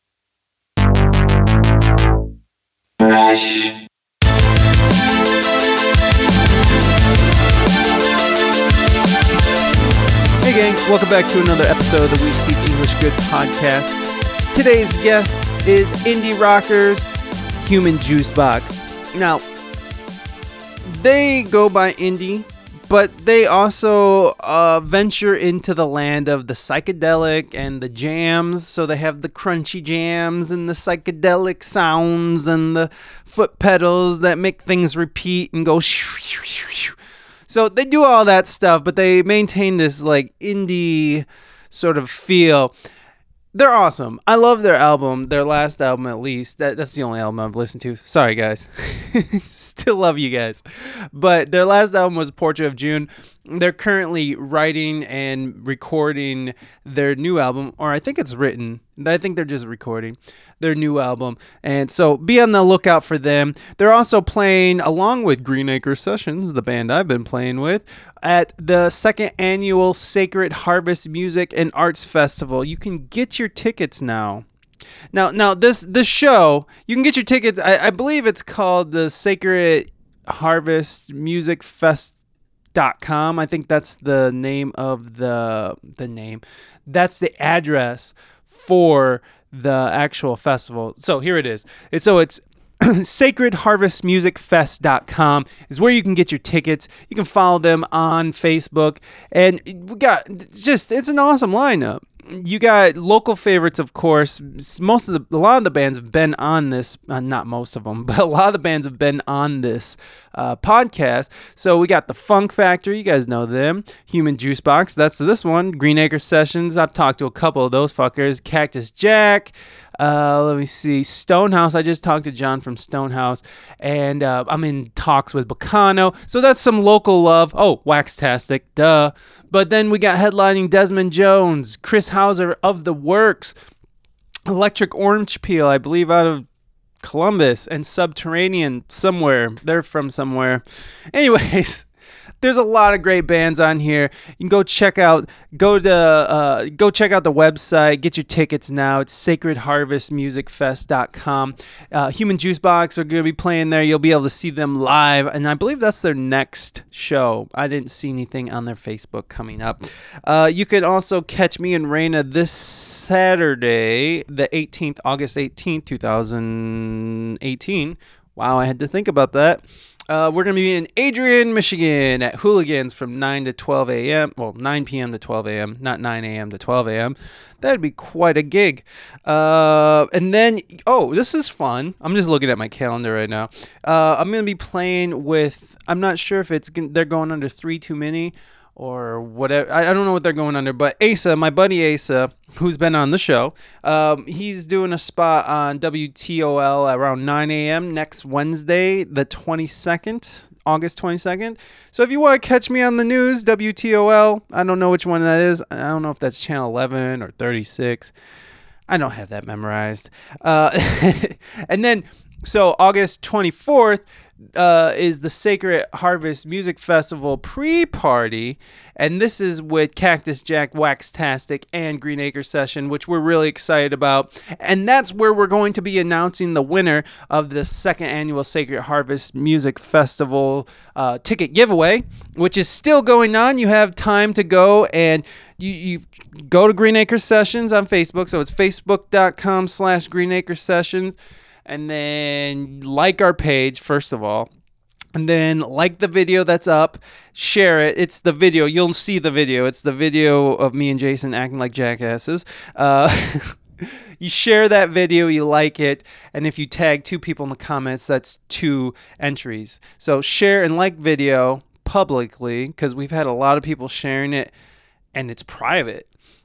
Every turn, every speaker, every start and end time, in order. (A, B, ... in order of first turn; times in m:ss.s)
0:10.4-0:14.0 A
0:14.5-0:17.1 A
0:17.6-0:19.4 A
0:20.9-0:37.0 A
0:37.5-0:42.7 A
0:43.5-1:14.4 A
1:15.1-1:22.1 A
1:22.8-2:13.5 A
2:14.5-2:16.4 A
2:17.0-2:21.9 A
2:22.4-3:28.1 A
3:28.9-3:34.0 A
3:34.6-4:04.5 A
4:05.2-4:24.5 A
4:25.1-4:26.1 A